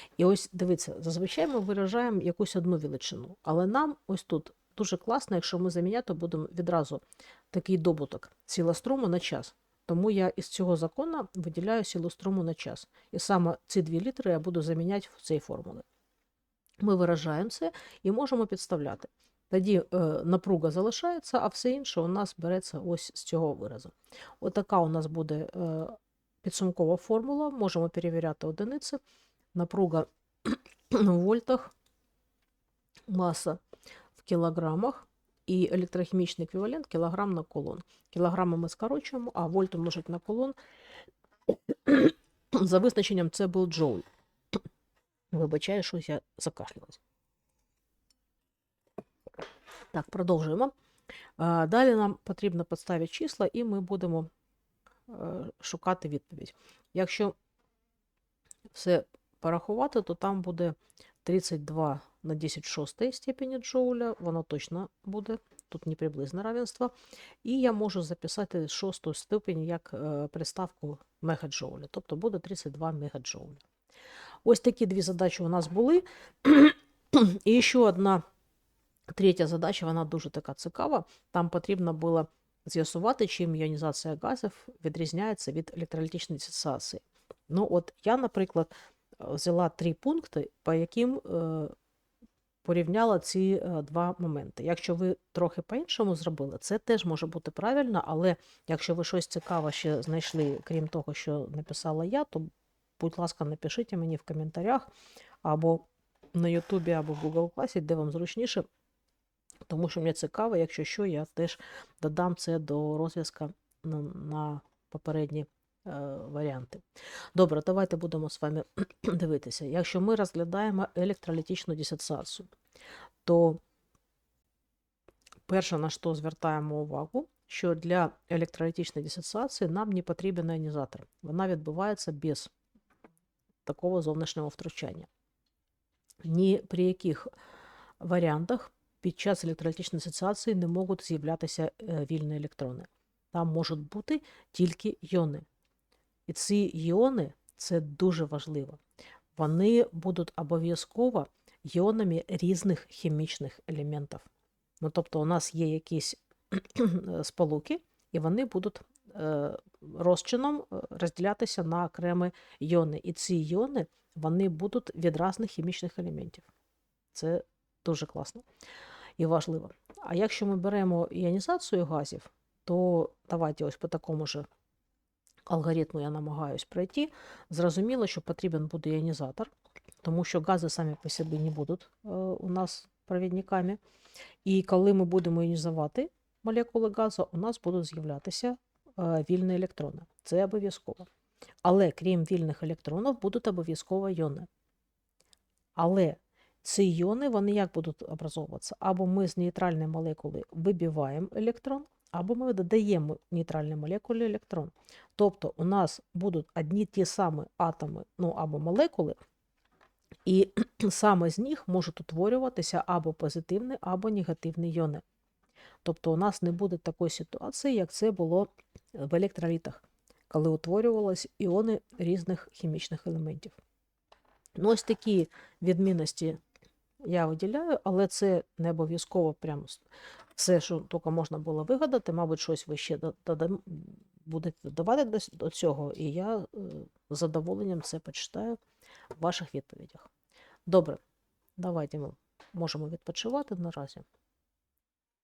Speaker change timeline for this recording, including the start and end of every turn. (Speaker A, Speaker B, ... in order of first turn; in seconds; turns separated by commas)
Speaker A: 0.2-15.8, Speaker A: 16.8-29.0, Speaker A: 29.5-31.7, Speaker A: 33.1-33.6, Speaker A: 34.2-40.5, Speaker A: 41.7-44.0, Speaker A: 45.3-47.0, Speaker A: 49.9-50.7, Speaker A: 51.4-54.3, Speaker A: 55.1-57.3, Speaker A: 58.7-66.9, Speaker A: 67.4-73.6, Speaker A: 74.4-78.2, Speaker A: 79.1-91.7, Speaker A: 92.6-104.9, Speaker A: 105.4-108.7, Speaker A: 109.7-116.8, Speaker A: 117.3-122.5, Speaker A: 123.2-123.6, Speaker A: 125.5-132.5, Speaker A: 133.7-135.1, Speaker A: 136.2-137.3, Speaker A: 138.0-145.4, Speaker A: 146.3-148.8, Speaker A: 149.3-154.3, Speaker A: 154.8-166.4, Speaker A: 167.1-168.4, Speaker A: 169.2-174.5, Speaker A: 175.5-179.5, Speaker A: 180.0-183.8, Speaker A: 184.4-191.1, Speaker A: 191.6-194.5, Speaker A: 195.8-209.2, Speaker A: 210.2-215.0, Speaker A: 215.8-223.5, Speaker A: 224.6-226.4, Speaker A: 227.0-238.6, Speaker A: 239.2-240.1, Speaker A: 240.7-241.0, Speaker A: 241.6-244.0